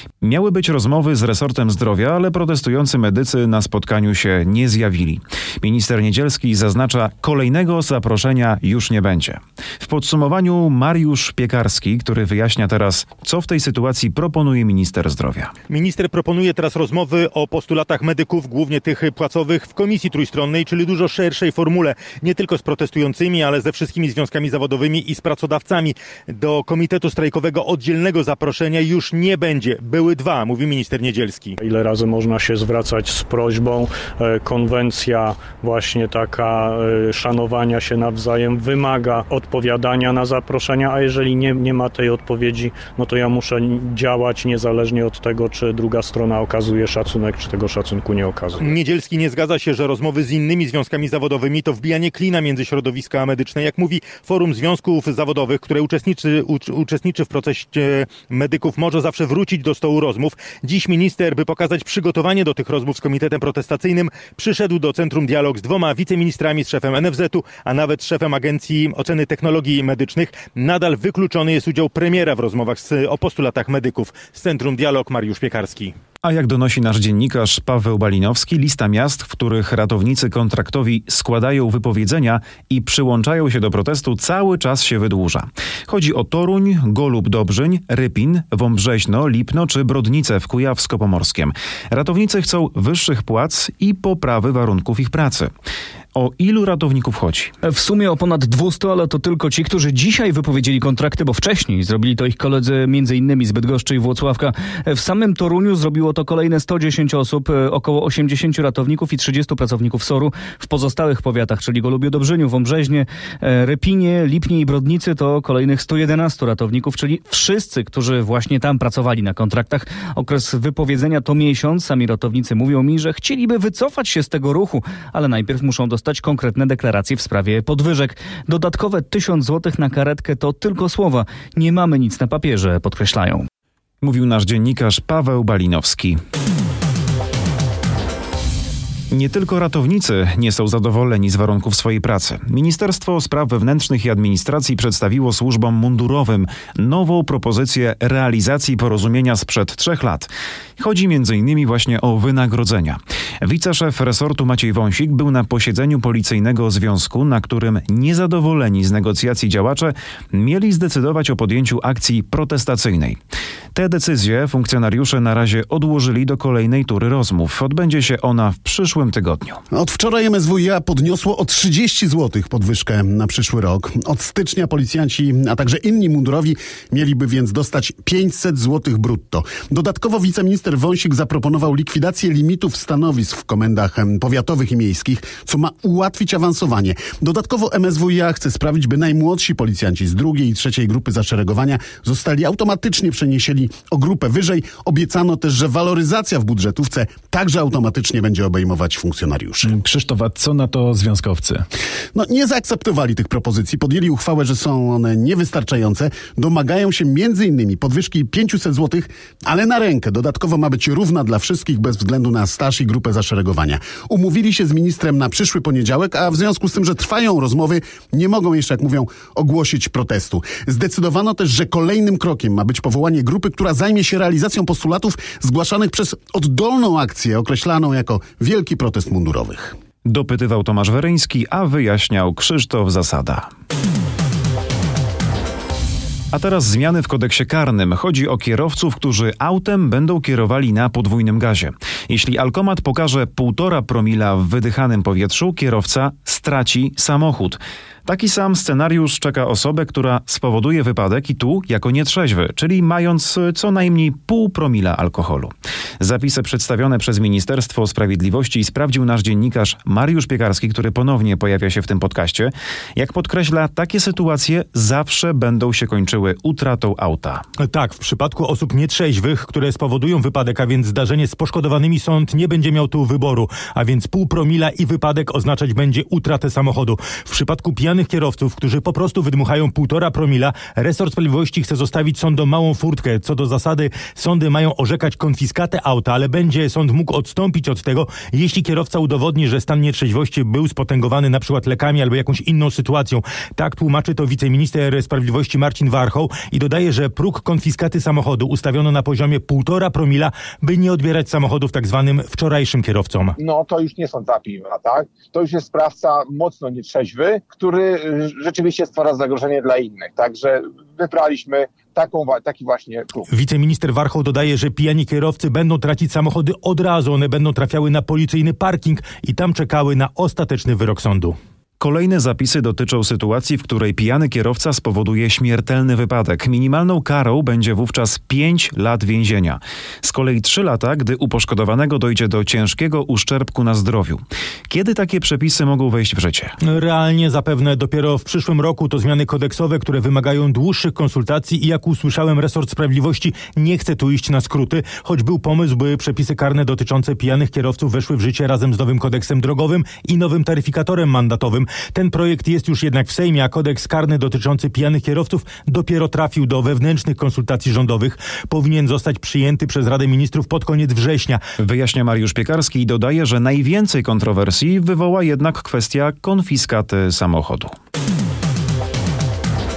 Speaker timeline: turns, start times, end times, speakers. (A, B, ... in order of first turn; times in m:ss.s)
0:00.2-0:15.5 A
0:15.7-0:31.6 B
0:31.6-0:48.7 C
0:48.6-1:15.9 B
1:16.2-1:35.5 A
1:36.1-1:37.5 A
1:37.6-2:13.5 D
2:14.0-2:16.2 A
2:19.1-2:43.2 A
2:43.7-2:49.6 A
2:49.7-3:19.7 E
3:19.6-3:21.6 F
3:22.1-3:49.7 E
3:50.0-3:53.5 A
3:56.3-4:27.4 A
4:27.6-5:03.4 B
5:03.4-5:13.3 G
5:13.3-5:21.4 B
5:21.8-5:36.6 A
5:36.6-6:01.4 B
6:01.6-6:07.7 A